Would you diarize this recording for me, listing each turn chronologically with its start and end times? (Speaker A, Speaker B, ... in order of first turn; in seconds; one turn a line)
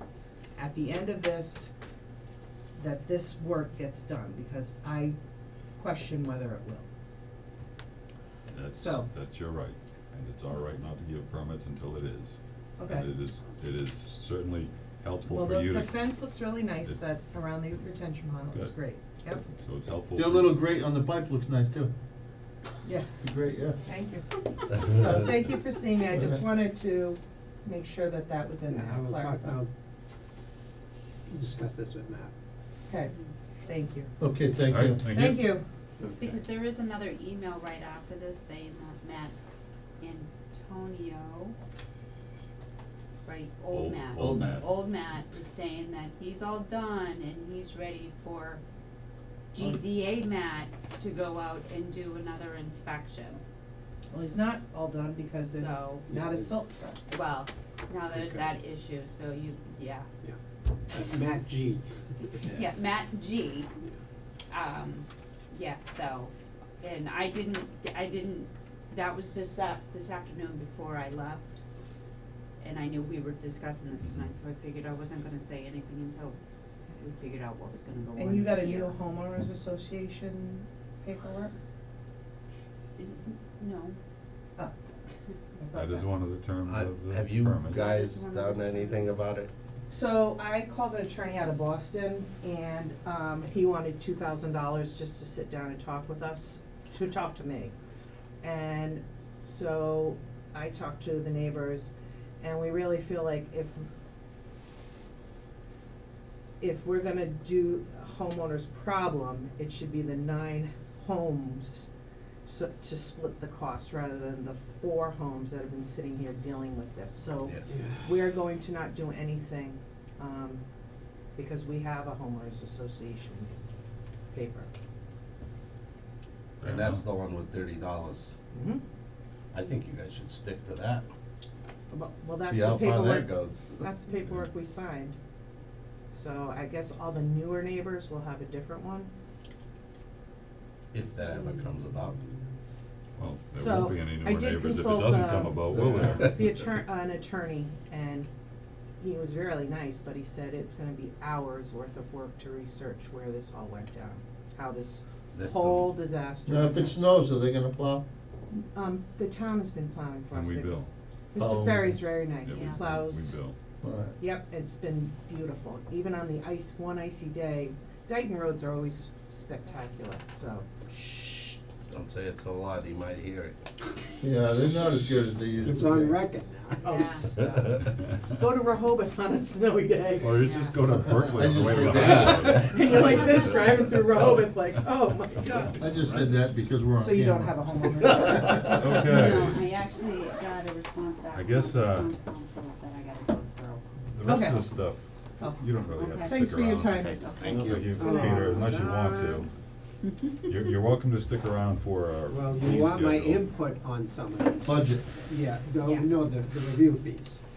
Speaker A: 0.5-1.7
Speaker A: 2.8-5.2
Speaker A: 5.8-6.8
Speaker B: 8.5-15.9
Speaker A: 8.7-9.1
Speaker A: 12.8-13.1
Speaker A: 15.3-19.4
Speaker B: 19.4-20.5
Speaker C: 20.1-21.9
Speaker A: 22.8-23.1
Speaker C: 23.2-23.8
Speaker A: 23.8-29.6
Speaker D: 28.7-29.7
Speaker D: 31.3-32.3
Speaker A: 32.9-34.1
Speaker C: 34.2-35.4
Speaker B: 34.7-35.5
Speaker A: 35.1-35.6
Speaker D: 36.0-36.4
Speaker E: 36.0-39.3
Speaker E: 40.0-41.5
Speaker E: 43.2-48.6
Speaker B: 43.7-44.8
Speaker E: 49.5-53.4
Speaker A: 54.1-57.0
Speaker E: 55.5-56.1
Speaker D: 56.1-56.6
Speaker E: 57.1-60.1
Speaker D: 58.1-58.4
Speaker D: 60.2-62.7
Speaker E: 62.5-63.7
Speaker E: 64.5-71.6
Speaker E: 72.6-76.4
Speaker E: 76.9-78.9
Speaker A: 78.2-81.5
Speaker E: 83.0-84.0
Speaker A: 85.5-86.1
Speaker B: 85.7-87.8
Speaker F: 86.6-89.5
Speaker E: 87.7-89.2
Speaker A: 89.9-97.7
Speaker A: 98.4-103.8
Speaker A: 106.6-111.9
Speaker A: 112.4-120.6
Speaker D: 117.7-118.2
Speaker A: 121.3-123.6
Speaker A: 124.3-124.7
Speaker F: 126.6-128.3
Speaker B: 126.6-127.0
Speaker A: 128.5-128.8
Speaker F: 129.5-131.1
Speaker A: 131.9-135.2
Speaker F: 132.4-133.9
Speaker A: 136.1-139.1
Speaker F: 140.9-142.2
Speaker B: 143.2-146.3
Speaker A: 143.5-148.3
Speaker A: 149.0-157.0
Speaker F: 155.3-156.0
Speaker C: 156.5-158.0
Speaker A: 158.7-160.8
Speaker B: 160.3-160.9
Speaker A: 161.3-163.3
Speaker C: 161.3-162.0
Speaker B: 162.4-163.5
Speaker E: 162.5-162.8
Speaker C: 163.8-164.2
Speaker A: 164.2-170.7
Speaker F: 171.0-173.6
Speaker C: 174.2-176.2
Speaker D: 175.6-177.8
Speaker A: 176.8-180.5
Speaker E: 176.8-177.3
Speaker B: 180.2-184.5
Speaker E: 180.3-180.8
Speaker C: 181.0-182.7
Speaker A: 181.8-185.8
Speaker E: 182.9-183.4
Speaker B: 185.4-186.4
Speaker C: 185.8-188.8
Speaker A: 186.9-189.4
Speaker B: 188.7-189.7
Speaker E: 189.1-194.4
Speaker B: 191.3-192.1
Speaker B: 194.1-199.5
Speaker A: 194.2-194.6
Speaker A: 195.4-198.5
Speaker E: 195.9-196.4
Speaker E: 197.0-197.6
Speaker F: 197.2-197.9
Speaker D: 197.9-199.5
Speaker E: 200.0-200.5
Speaker B: 200.4-203.5
Speaker D: 202.3-207.4
Speaker C: 204.6-205.0